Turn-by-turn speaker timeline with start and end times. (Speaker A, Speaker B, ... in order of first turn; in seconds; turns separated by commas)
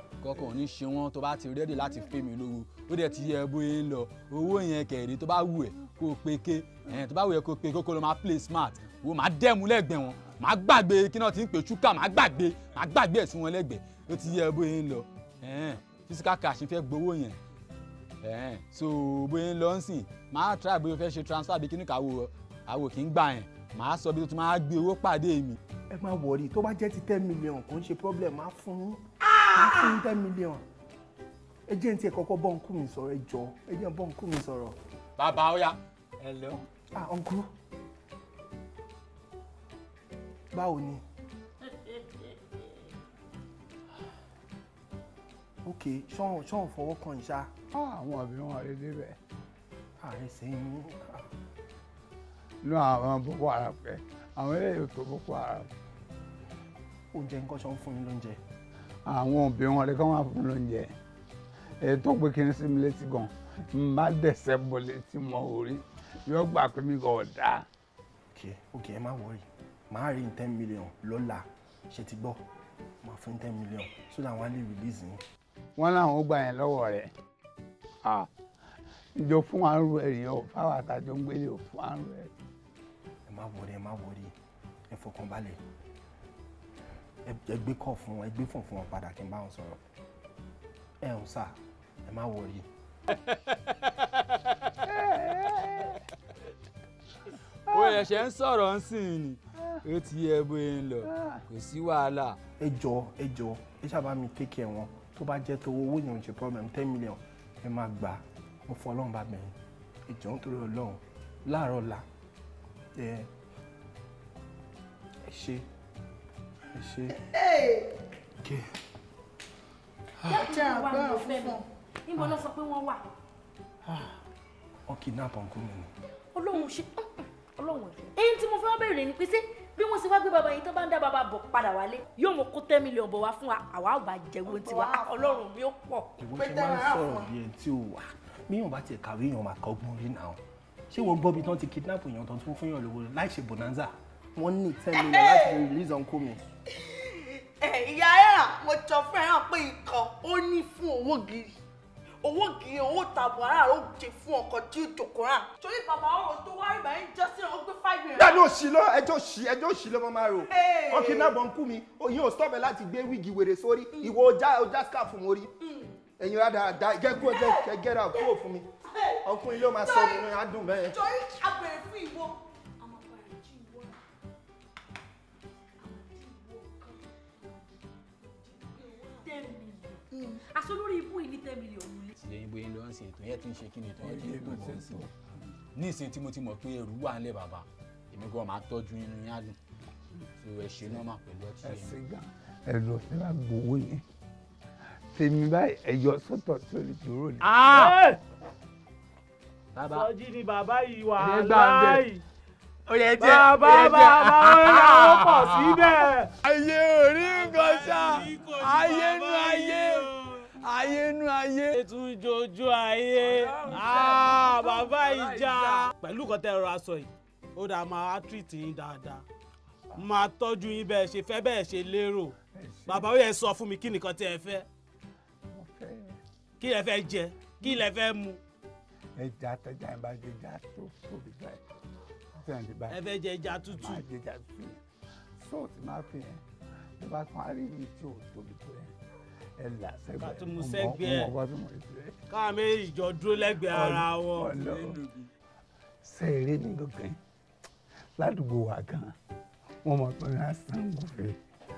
Speaker A: 0.2-17.4, Speaker A: 18.2-25.6, Speaker B: 25.9-30.6, Speaker B: 31.7-34.8, Speaker A: 35.2-36.6, Speaker B: 36.9-37.5, Speaker B: 40.5-41.0, Speaker B: 45.6-47.5, Speaker C: 47.7-49.2, Speaker B: 50.0-51.3, Speaker C: 52.6-55.7, Speaker B: 57.1-58.4, Speaker C: 59.0-61.0, Speaker C: 61.8-67.7, Speaker B: 68.3-72.4, Speaker B: 73.0-75.2, Speaker C: 75.8-77.1, Speaker C: 78.0-78.3, Speaker C: 79.1-82.3, Speaker B: 83.3-84.3, Speaker B: 84.9-85.6, Speaker B: 87.2-89.8, Speaker B: 91.0-92.7, Speaker C: 94.8-96.0, Speaker A: 97.7-102.4, Speaker C: 97.7-98.0, Speaker C: 101.0-101.4, Speaker B: 102.6-109.5, Speaker B: 110.1-112.0, Speaker B: 112.9-113.3, Speaker B: 115.2-115.6, Speaker B: 116.7-117.2, Speaker D: 117.2-117.9, Speaker B: 118.4-118.7, Speaker B: 120.2-120.5, Speaker E: 120.2-123.1, Speaker D: 120.5-121.6, Speaker B: 124.9-125.9, Speaker E: 126.3-136.2, Speaker D: 134.4-135.3, Speaker B: 136.2-146.4, Speaker D: 136.4-137.3, Speaker D: 144.9-145.6, Speaker D: 146.8-151.6, Speaker D: 152.2-158.4, Speaker B: 158.1-165.5, Speaker D: 160.4-161.3, Speaker D: 163.9-164.2, Speaker D: 165.6-165.9, Speaker B: 166.2-171.0, Speaker D: 167.2-168.3, Speaker D: 168.9-169.2, Speaker D: 169.7-170.3, Speaker D: 170.9-174.0, Speaker D: 175.9-177.6, Speaker D: 178.2-179.2, Speaker E: 179.2-182.1, Speaker A: 182.2-184.8, Speaker C: 184.0-185.2, Speaker A: 185.7-189.6, Speaker A: 190.4-191.9, Speaker C: 191.6-194.0, Speaker C: 195.1-197.5, Speaker A: 197.4-197.9, Speaker F: 197.6-198.2, Speaker A: 199.7-200.1, Speaker F: 199.8-202.2, Speaker A: 201.2-202.0, Speaker A: 202.9-211.8, Speaker F: 203.2-206.3, Speaker F: 207.2-210.5, Speaker F: 211.7-219.2, Speaker A: 213.2-215.9, Speaker F: 219.9-222.3, Speaker C: 222.5-223.1, Speaker F: 222.9-224.7, Speaker C: 225.5-226.2, Speaker F: 226.6-228.4, Speaker C: 229.2-231.6, Speaker C: 232.3-233.0, Speaker F: 232.9-234.0, Speaker C: 233.8-234.8, Speaker C: 235.4-236.4, Speaker C: 237.0-238.9, Speaker C: 239.6-242.2, Speaker F: 240.2-241.3, Speaker F: 242.3-244.5, Speaker C: 243.6-245.0, Speaker A: 244.5-245.3, Speaker C: 246.0-247.2, Speaker C: 248.2-249.1, Speaker C: 249.8-251.4